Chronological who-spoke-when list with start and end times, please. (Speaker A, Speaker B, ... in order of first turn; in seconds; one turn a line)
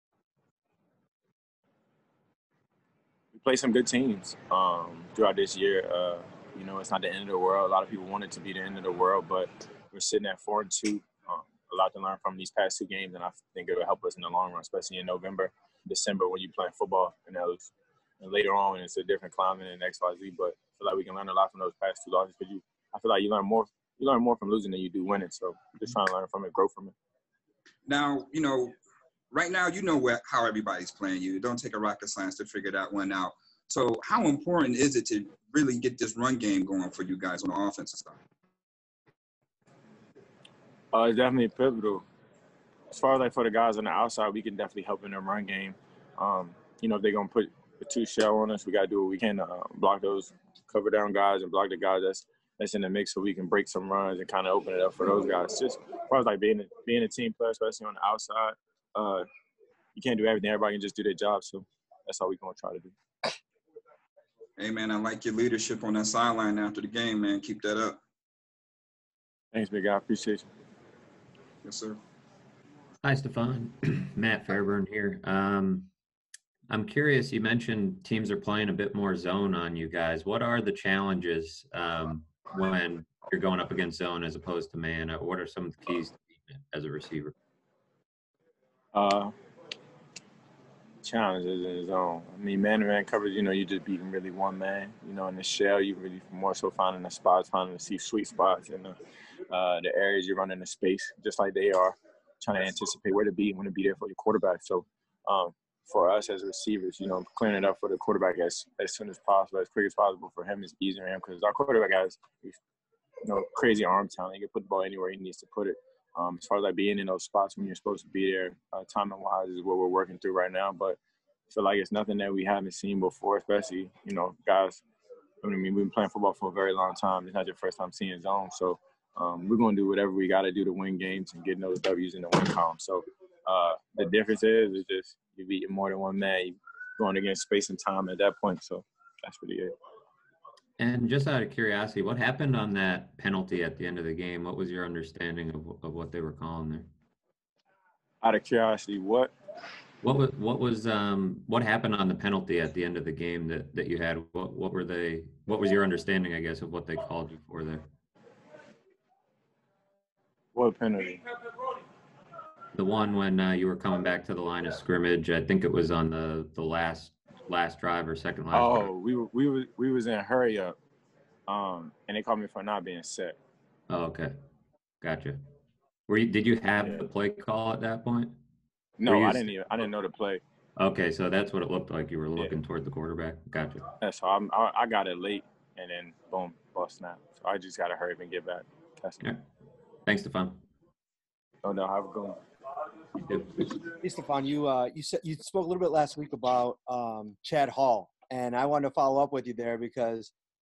Speaker A: 3.3-26.9
Speaker B: 27.9-28.7
Speaker B: 29.3-38.2
Speaker A: 40.9-42.0
Speaker A: 42.9-59.3
Speaker A: 60.0-62.9
Speaker B: 64.6-68.0
Speaker A: 69.5-70.5
Speaker B: 71.7-72.0
Speaker C: 73.0-75.9
Speaker C: 76.7-87.3
Speaker A: 88.9-89.3
Speaker A: 91.0-99.0
Speaker A: 99.5-112.6
Speaker A: 113.2-121.0
Speaker A: 121.5-124.8
Speaker A: 125.4-139.7
Speaker C: 140.8-146.9
Speaker A: 148.2-149.3
Speaker C: 150.0-157.8
Speaker A: 160.5-161.2
Speaker C: 162.7-168.9
Speaker A: 168.5-170.8
Speaker A: 171.5-173.4
Speaker C: 173.9-174.3
Speaker C: 175.0-175.4
Speaker C: 176.1-178.3
Speaker A: 179.0-180.4
Speaker C: 179.1-179.5
Speaker C: 180.8-183.9
Speaker A: 184.0-189.3
Speaker C: 190.1-190.6
Speaker A: 191.6-192.4
Speaker D: 194.0-200.3